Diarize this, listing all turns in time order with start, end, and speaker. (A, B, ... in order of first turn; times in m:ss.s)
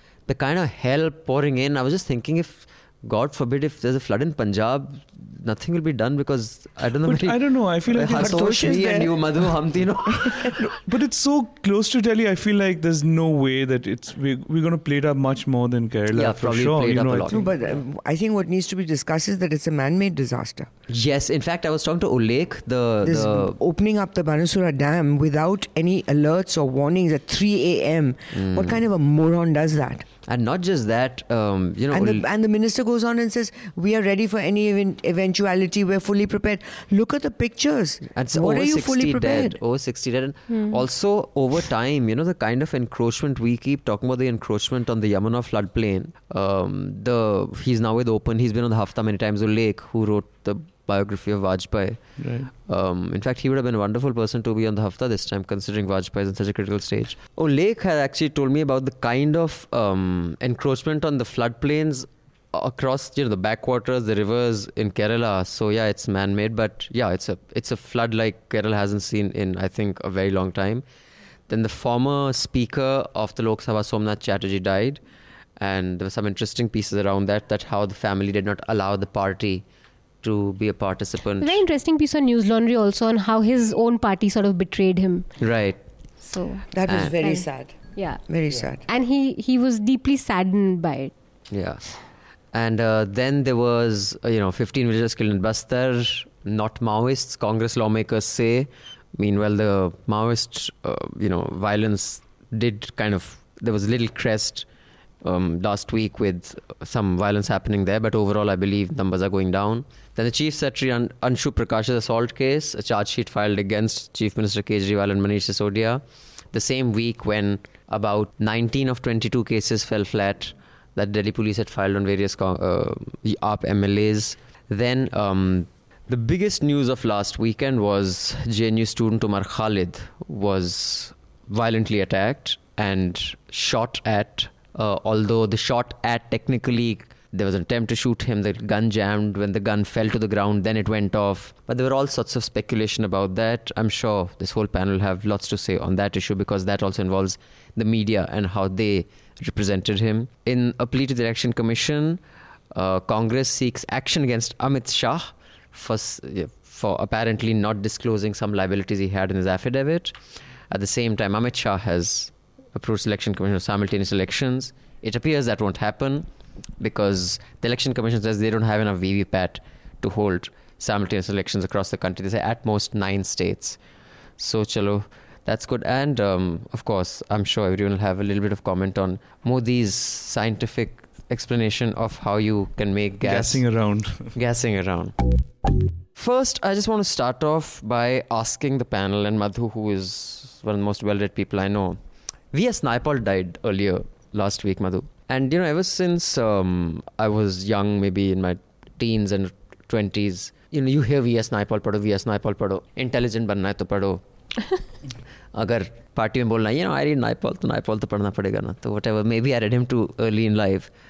0:00.3-0:10.6 A
0:07.0-0:09.0 B
0:08.1-0:09.2 C
0:10.3-0:17.4 B
0:16.1-0:17.5 A
0:17.3-0:20.7 C
0:20.9-0:23.6 A
0:23.0-0:30.1 C
0:28.3-0:28.8 A
0:30.2-0:32.2 A
0:31.9-0:39.6 C
0:38.1-1:10.8 A
0:40.5-0:40.8 D
0:52.2-0:52.5 B
1:11.5-1:15.0 A
1:15.6-1:19.6 A
1:20.2-1:21.6 A
1:21.4-1:25.2 D
1:25.4-1:25.8 A
1:26.2-1:26.6 D
1:26.7-1:27.8 C
1:26.9-1:27.1 A
1:27.2-1:28.2 D
1:28.2-1:28.8 C
1:28.9-1:31.1 D
1:31.5-1:31.8 A
1:32.5-1:44.6 A
1:45.2-1:56.0 A
1:56.5-2:32.2 A
2:32.7-2:40.1 A
2:40.7-2:46.3 A
2:46.8-2:53.8 A
2:54.4-3:03.6 A
3:03.2-3:04.3 B
3:04.3-3:05.3 A
3:06.2-3:12.0 A
3:12.5-3:24.2 A
3:25.5-3:30.9 A